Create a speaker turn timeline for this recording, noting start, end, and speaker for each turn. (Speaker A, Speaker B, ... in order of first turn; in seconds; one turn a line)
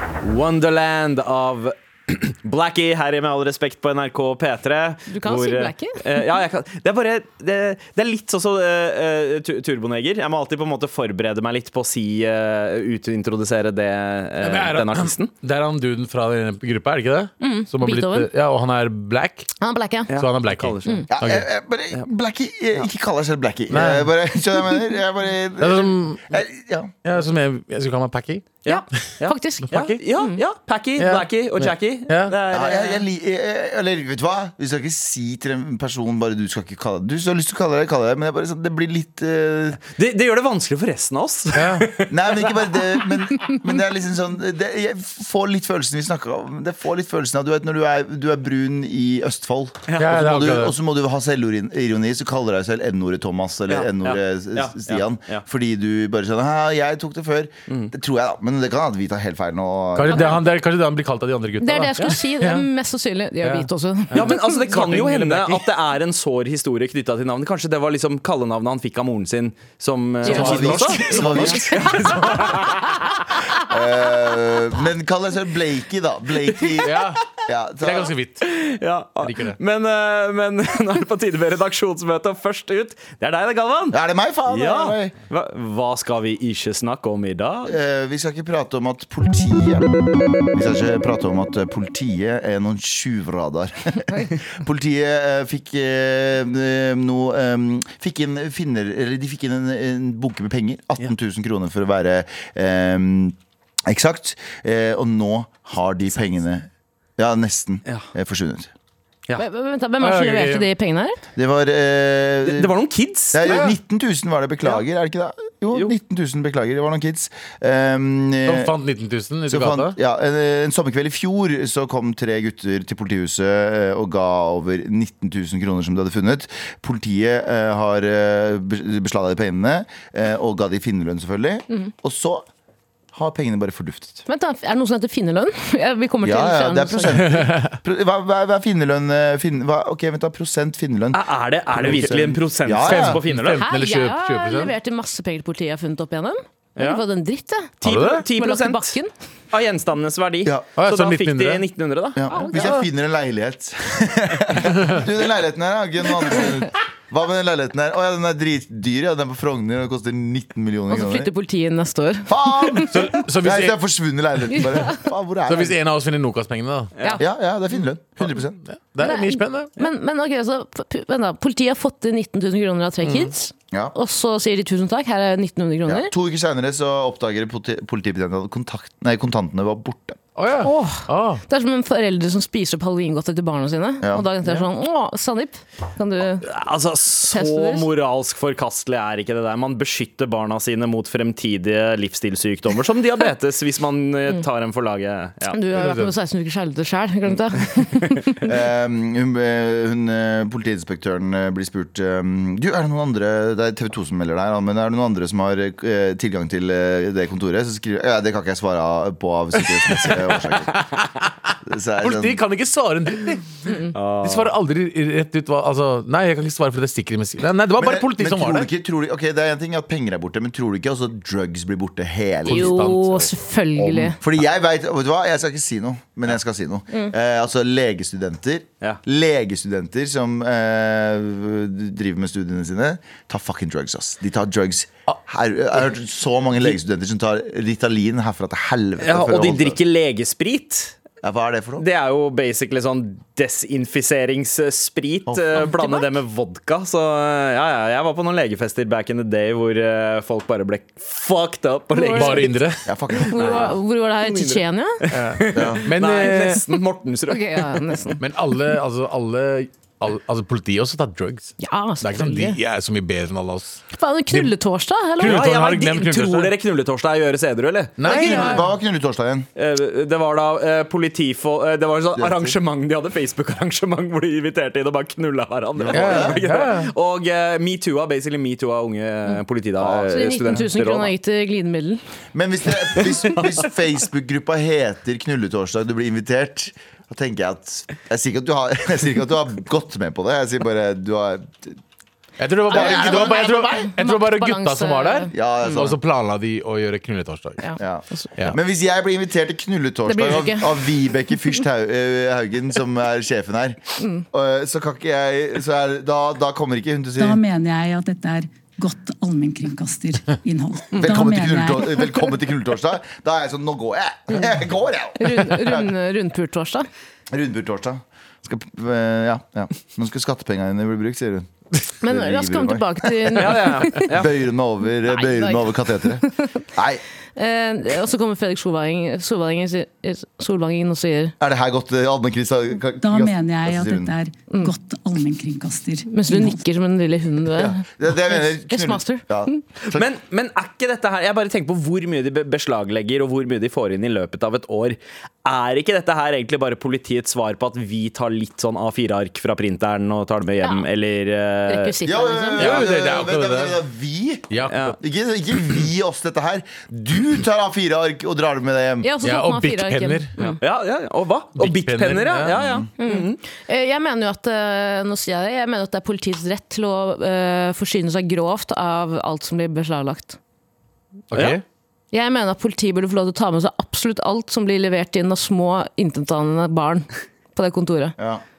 Speaker A: 0.2-15.3
Speaker B: 5.1-6.0
Speaker C: 14.4-19.5
Speaker B: 17.4-18.3
Speaker B: 19.6-20.1
Speaker A: 20.1-21.0
Speaker C: 20.2-21.5
Speaker D: 21.1-26.9
Speaker C: 23.7-24.1
Speaker C: 25.6-26.4
Speaker C: 27.0-28.6
Speaker B: 28.7-30.4
Speaker A: 28.7-33.0
Speaker C: 29.7-30.0
Speaker C: 31.0-32.4
Speaker D: 32.5-39.8
Speaker A: 40.0-42.7
Speaker C: 41.5-41.9
Speaker D: 42.1-60.3
Speaker C: 50.0-50.7
Speaker A: 53.7-55.4
Speaker C: 60.0-62.7
Speaker B: 60.1-60.4
Speaker B: 61.6-64.6
Speaker C: 63.4-65.7
Speaker A: 64.1-73.0
Speaker C: 70.2-71.8
Speaker B: 70.3-71.6
Speaker D: 70.3-71.7
Speaker D: 73.7-78.1
Speaker C: 76.8-77.2
Speaker C: 77.8-78.4
Speaker A: 78.5-87.8
Speaker C: 79.2-79.6
Speaker D: 83.9-85.1
Speaker D: 87.7-108.7
Speaker B: 109.4-111.2
Speaker C: 110.0-110.7
Speaker D: 111.4-112.7
Speaker A: 112.4-113.6
Speaker D: 113.3-118.7
Speaker C: 113.5-113.8
Speaker C: 118.5-120.0
Speaker D: 119.5-132.5
Speaker D: 133.1-134.2
Speaker B: 134.3-137.3
Speaker D: 136.2-143.2
Speaker C: 137.2-137.8
Speaker A: 141.1-143.6
Speaker C: 142.8-144.7
Speaker B: 143.6-147.8
Speaker A: 146.8-147.0
Speaker A: 147.8-149.0
Speaker C: 147.8-148.3
Speaker B: 148.3-149.1
Speaker A: 149.5-152.2
Speaker C: 150.8-151.7
Speaker D: 152.2-161.3
Speaker B: 152.3-152.7
Speaker B: 160.9-163.1
Speaker D: 162.3-165.8
Speaker C: 162.9-163.8
Speaker B: 164.5-165.0
Speaker C: 165.5-166.9
Speaker D: 167.2-168.6
Speaker C: 168.6-169.7
Speaker B: 169.0-176.1
Speaker D: 175.9-180.2
Speaker C: 180.4-181.4
Speaker B: 180.6-186.5
Speaker A: 186.4-195.6
Speaker B: 187.3-187.9
Speaker B: 195.5-198.4
Speaker C: 195.7-196.1
Speaker D: 198.5-210.8
Speaker D: 211.7-212.4
Speaker C: 212.0-213.5
Speaker A: 213.9-214.5
Speaker C: 214.2-218.7
Speaker D: 217.8-222.8
Speaker C: 222.4-223.3
Speaker B: 222.5-224.2
Speaker D: 223.9-239.8
Speaker A: 239.0-241.0
Speaker D: 241.2-241.8
Speaker A: 241.8-252.6
Speaker D: 245.3-245.7
Speaker B: 245.6-246.1
Speaker B: 251.9-252.7
Speaker C: 252.1-252.9
Speaker D: 252.9-253.7
Speaker B: 253.2-255.0
Speaker A: 253.3-257.9
Speaker C: 255.1-256.6
Speaker D: 255.5-255.8
Speaker B: 257.3-258.2
Speaker C: 258.2-264.5
Speaker B: 261.6-262.6
Speaker B: 263.9-265.5
Speaker C: 265.2-266.5
Speaker A: 265.2-268.0
Speaker C: 268.0-268.6
Speaker D: 268.1-269.5
Speaker B: 268.1-268.6
Speaker A: 269.6-281.1
Speaker D: 272.2-272.6
Speaker D: 275.8-276.4
Speaker C: 275.9-276.9
Speaker D: 279.8-280.1
Speaker B: 280.1-282.0
Speaker D: 282.3-291.8
Speaker C: 292.4-297.7
Speaker B: 292.7-295.8
Speaker D: 292.7-293.5
Speaker D: 295.3-296.0
Speaker B: 297.6-298.3
Speaker D: 297.8-303.8
Speaker B: 300.1-300.9
Speaker B: 304.0-304.2
Speaker D: 304.3-307.4
Speaker E: 307.2-312.2
Speaker D: 310.9-315.9
Speaker B: 315.2-316.9
Speaker D: 317.3-321.5
Speaker D: 322.0-327.0
Speaker B: 322.0-324.1
Speaker A: 323.4-324.3
Speaker B: 325.1-326.6
Speaker B: 327.4-331.4
Speaker D: 331.4-334.1
Speaker E: 333.0-336.6
Speaker B: 336.1-339.6
Speaker D: 337.5-340.1
Speaker A: 339.9-352.0
Speaker B: 351.7-352.9
Speaker D: 352.1-359.1
Speaker C: 352.6-353.8
Speaker C: 354.5-354.9
Speaker A: 354.7-354.9
Speaker B: 359.0-360.6
Speaker C: 359.2-360.5
Speaker A: 360.6-363.4
Speaker C: 361.6-362.6
Speaker D: 362.6-362.9
Speaker B: 363.0-370.4
Speaker C: 371.3-371.6
Speaker A: 371.3-371.6
Speaker B: 372.1-378.1
Speaker D: 378.2-378.4